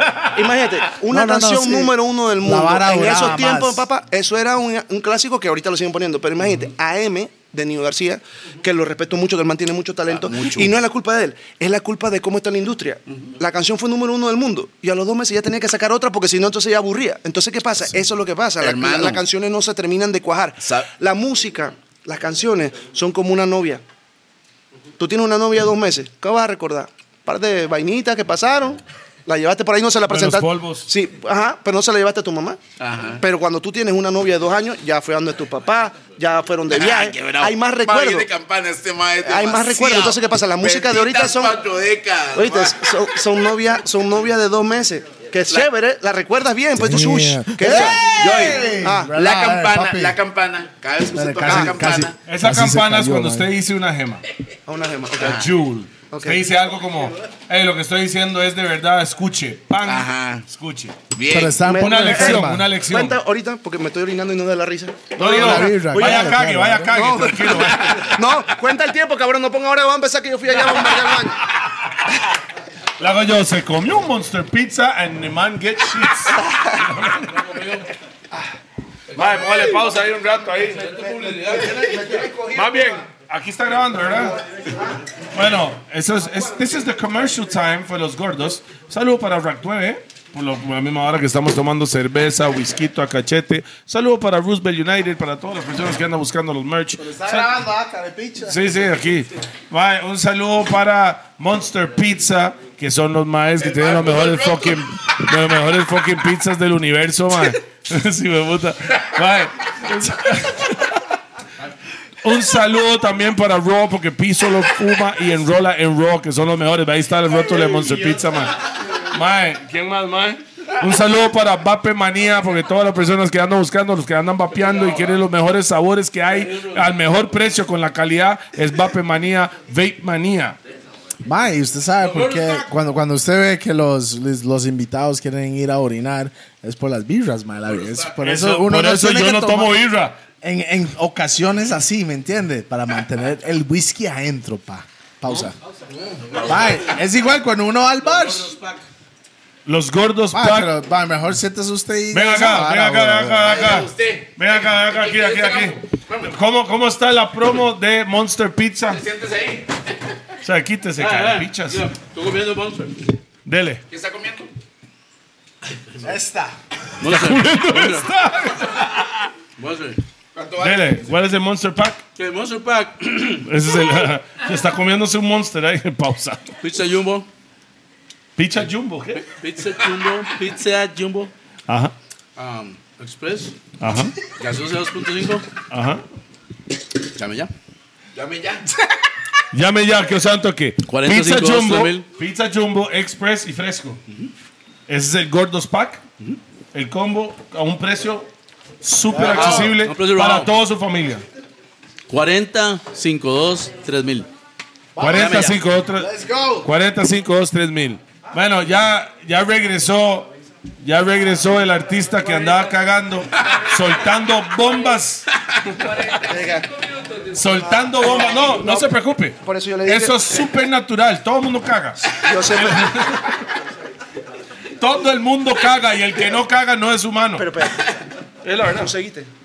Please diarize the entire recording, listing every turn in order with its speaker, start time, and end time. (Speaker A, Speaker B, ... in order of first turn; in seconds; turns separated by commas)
Speaker A: 0.2-23.8, Speaker B: 1.1-3.9, Speaker C: 10.1-10.8, Speaker C: 18.6-19.2, Speaker C: 20.6-20.9, Speaker A: 25.0-32.6, Speaker D: 30.1-30.9, Speaker C: 32.8-33.2, Speaker A: 33.2-38.3, Speaker C: 36.7-42.8, Speaker A: 39.2-41.6, Speaker A: 42.3-49.1, Speaker B: 46.8-50.2, Speaker C: 47.6-52.2, Speaker B: 51.1-53.5, Speaker A: 51.5-51.8, Speaker D: 52.3-54.2, Speaker A: 54.7-55.5, Speaker C: 55.2-55.5, Speaker D: 55.2-61.0, Speaker A: 56.1-56.4, Speaker C: 59.8-60.5, Speaker C: 61.1-61.6, Speaker B: 61.3-62.7, Speaker A: 61.6-66.4, Speaker D: 61.8-63.2, Speaker D: 65.2-68.2, Speaker B: 65.3-67.1, Speaker A: 66.9-71.4, Speaker D: 73.0-77.3, Speaker E: 77.3-77.9, Speaker D: 79.1-81.0, Speaker E: 80.8-81.8, Speaker A: 81.1-83.0, Speaker D: 82.5-84.4, Speaker D: 85.3-97.5, Speaker B: 97.0-98.6, Speaker D: 98.5-111.0, Speaker D: 112.2-130.6, Speaker E: 124.6-125.1, Speaker E: 126.4-126.8, Speaker B: 131.2-139.8, Speaker E: 132.0-132.6, Speaker D: 138.2-140.2, Speaker B: 140.4-145.6, Speaker E: 145.9-146.8, Speaker B: 146.4-148.5, Speaker E: 148.1-148.8, Speaker D: 149.7-150.7, Speaker B: 150.3-153.7, Speaker D: 152.1-159.0, Speaker C: 153.4-156.3, Speaker C: 158.9-159.7, Speaker D: 160.4-161.8, Speaker E: 161.0-163.0, Speaker D: 163.5-163.8, Speaker C: 163.9-164.5, Speaker B: 166.0-166.6, Speaker E: 167.0-168.1, Speaker D: 167.0-169.3, Speaker E: 169.6-170.0, Speaker C: 170.3-171.1, Speaker D: 170.6-172.0, Speaker E: 172.2-173.5, Speaker D: 173.4-176.6, Speaker E: 176.6-177.3, Speaker D: 178.4-179.2, Speaker E: 179.1-181.3, Speaker D: 181.7-181.9, Speaker C: 182.4-182.8, Speaker E: 182.8-183.6, Speaker D: 183.8-184.2, Speaker E: 184.4-185.5, Speaker D: 185.7-186.0, Speaker E: 187.2-187.5, Speaker C: 188.1-188.8, Speaker D: 189.5-194.0, Speaker E: 190.9-192.1, Speaker D: 194.9-196.0, Speaker D: 196.7-198.3, Speaker D: 198.8-201.2, Speaker B: 199.1-199.8, Speaker E: 199.3-200.5, Speaker E: 202.1-204.3, Speaker B: 205.0-206.7, Speaker D: 205.0-206.1, Speaker C: 205.1-205.6, Speaker D: 206.6-210.3, Speaker D: 210.8-215.3, Speaker A: 216.2-216.7, Speaker D: 217.3-223.3, Speaker A: 217.8-218.9, Speaker A: 219.4-220.2, Speaker A: 222.2-222.9, Speaker D: 224.8-227.5, Speaker A: 227.4-227.9, Speaker D: 228.4-228.9, Speaker A: 228.8-229.3